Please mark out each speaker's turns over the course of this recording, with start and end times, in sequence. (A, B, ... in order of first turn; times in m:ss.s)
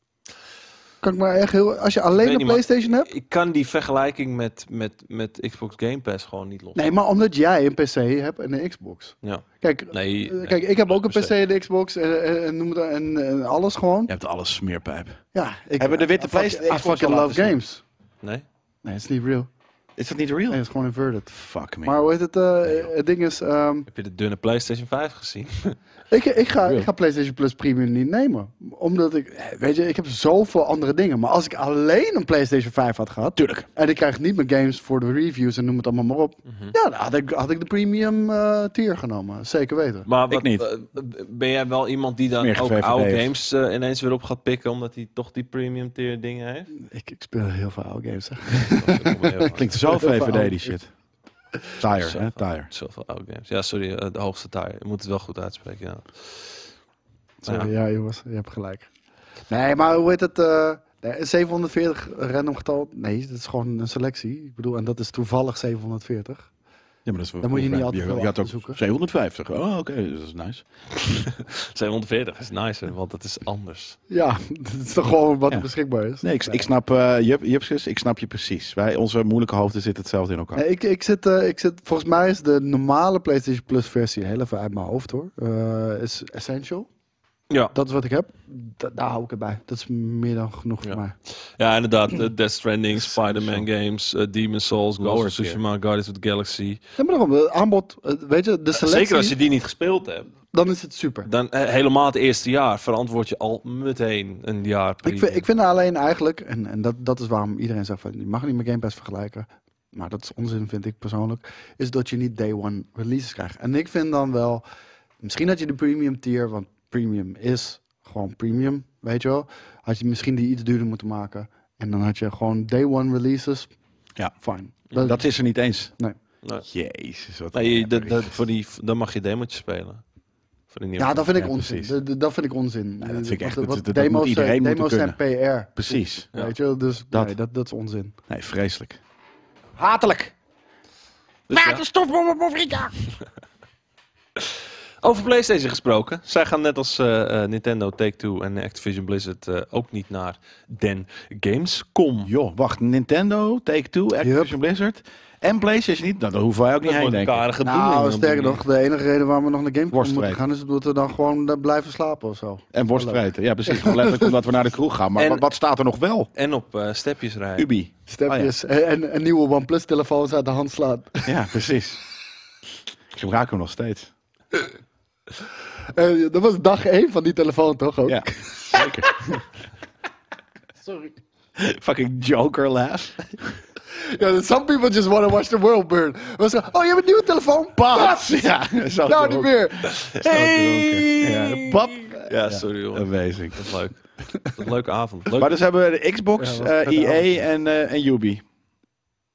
0:01.0-0:03.1 A
0:02.2-0:06.8 B
0:06.7-0:14.1 A
0:09.2-0:11.3 B
0:14.1-0:15.2 C
0:15.3-0:17.8 A
0:15.8-0:17.6 C
0:18.8-0:19.5 A
0:20.0-0:20.6 C
0:20.5-0:23.9 A
0:21.3-0:21.9 C
0:23.9-0:25.8 B
0:26.1-0:40.1 A
0:33.4-0:33.7 C
0:36.4-0:36.7 B
0:40.0-0:46.7 B
0:40.3-0:40.6 C
0:42.4-0:43.3 C
0:46.8-0:50.7 A
0:48.6-0:49.8 B
0:49.6-0:50.9 C
0:51.8-0:52.7 C
0:52.0-0:56.6 B
0:57.4-0:58.9 A
0:57.4-0:57.7 B
0:59.5-1:06.5 A
1:07.0-1:10.6 C
1:07.4-1:08.8 A
1:11.0-1:14.0 B
1:14.1-1:16.7 A
1:16.2-1:20.6 C
1:20.5-1:26.9 A
1:27.7-1:31.1 A
1:30.8-1:36.8 B
1:33.2-1:33.6 C
1:35.0-1:35.6 C
1:37.0-1:39.4 A
1:38.7-1:40.3 B
1:40.5-1:41.3 A
1:41.2-1:45.4 B
1:45.0-1:54.6 A
1:55.2-2:03.7 A
2:04.4-2:05.2 A
2:04.9-2:05.9 C
2:06.6-2:08.4 C
2:07.5-2:10.0 B
2:10.7-2:11.3 B
2:11.0-2:18.1 A
2:11.3-2:11.9 C
2:13.0-2:15.2 C
2:15.7-2:16.3 C
2:18.3-2:19.0 C
2:19.8-2:20.3 C
2:21.5-2:22.9 C
2:21.5-2:21.8 B
2:24.4-2:32.3 B
2:32.2-2:37.4 C
2:34.2-2:34.5 A
2:36.8-2:38.6 B
2:37.6-2:44.4 A
2:39.9-2:40.4 C
2:42.7-2:46.3 C
2:45.2-2:45.4 B
2:46.3-2:47.7 B
2:47.6-2:48.5 C
2:48.1-2:51.3 A
2:51.2-2:52.0 C
2:53.1-2:54.1 C
2:55.9-2:59.4 A
2:58.1-2:59.4 C
3:00.8-3:01.2 A
3:01.6-3:03.3 C
3:03.9-3:08.5 A
3:07.8-3:09.6 C
3:09.0-3:11.1 A
3:09.9-3:15.5 B
3:11.0-3:13.7 C
3:15.4-3:18.4 C
3:16.4-3:17.3 A